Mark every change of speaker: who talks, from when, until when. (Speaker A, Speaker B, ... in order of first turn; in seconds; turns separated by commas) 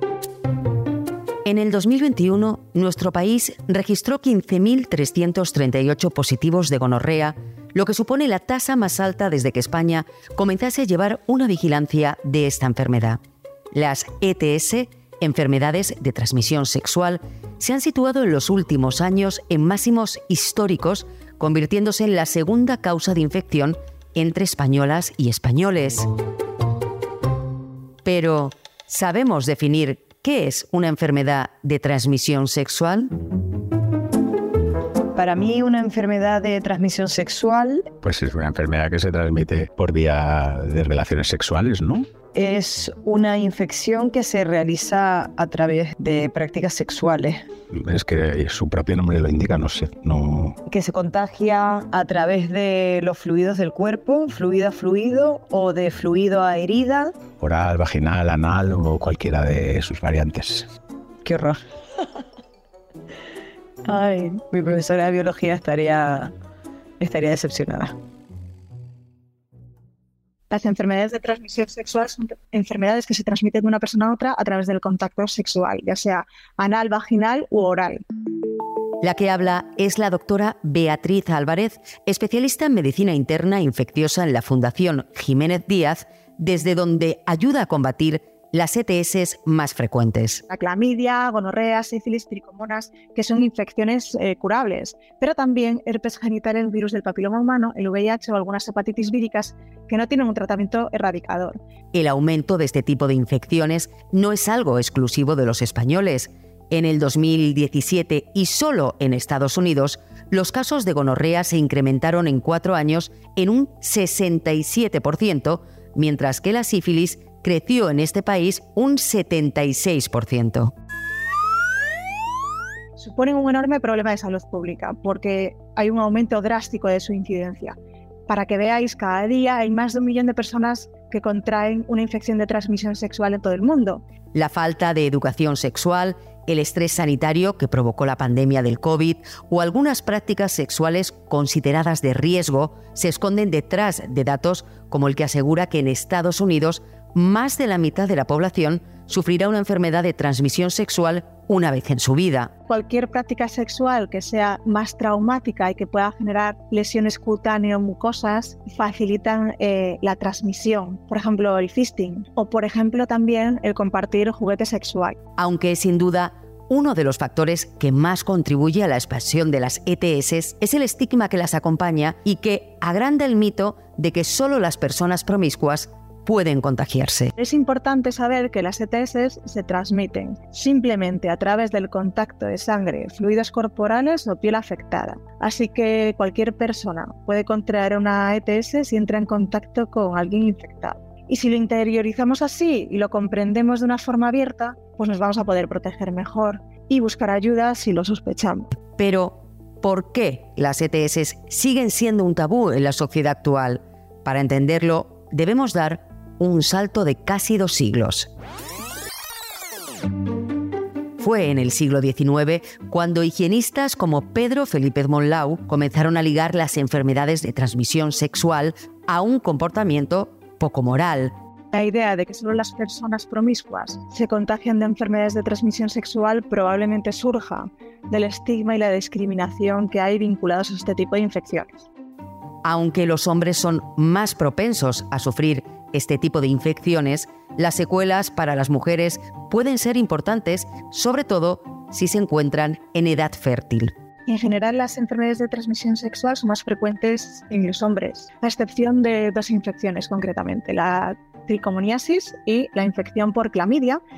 Speaker A: 1.4-13.2, Speaker A: 13.7-26.1, Speaker A: 28.0-33.1, Speaker B: 35.1-37.9, Speaker C: 38.0-42.1, Speaker B: 42.3-47.4, Speaker C: 47.7-50.6, Speaker B: 50.6-57.1, Speaker C: 57.4-60.7, Speaker B: 61.2-61.6, Speaker B: 63.8-66.3, Speaker B: 67.0-67.9, Speaker D: 70.5-78.0, Speaker A: 79.0-90.4, Speaker D: 90.5-101.6, Speaker A: 101.9-120.7, Speaker D: 123.0-127.8, Speaker D: 128.3-134.0, Speaker A: 134.3-152.5, Speaker D: 152.7-165.2, Speaker A: 165.4-177.3, Speaker D: 177.4-198.7, Speaker A: 199.0-208.3, Speaker A: 211.2-221.3, Speaker D: 221.7-231.8, Speaker A: 232.6-243.9, Speaker D: 244.3-254.0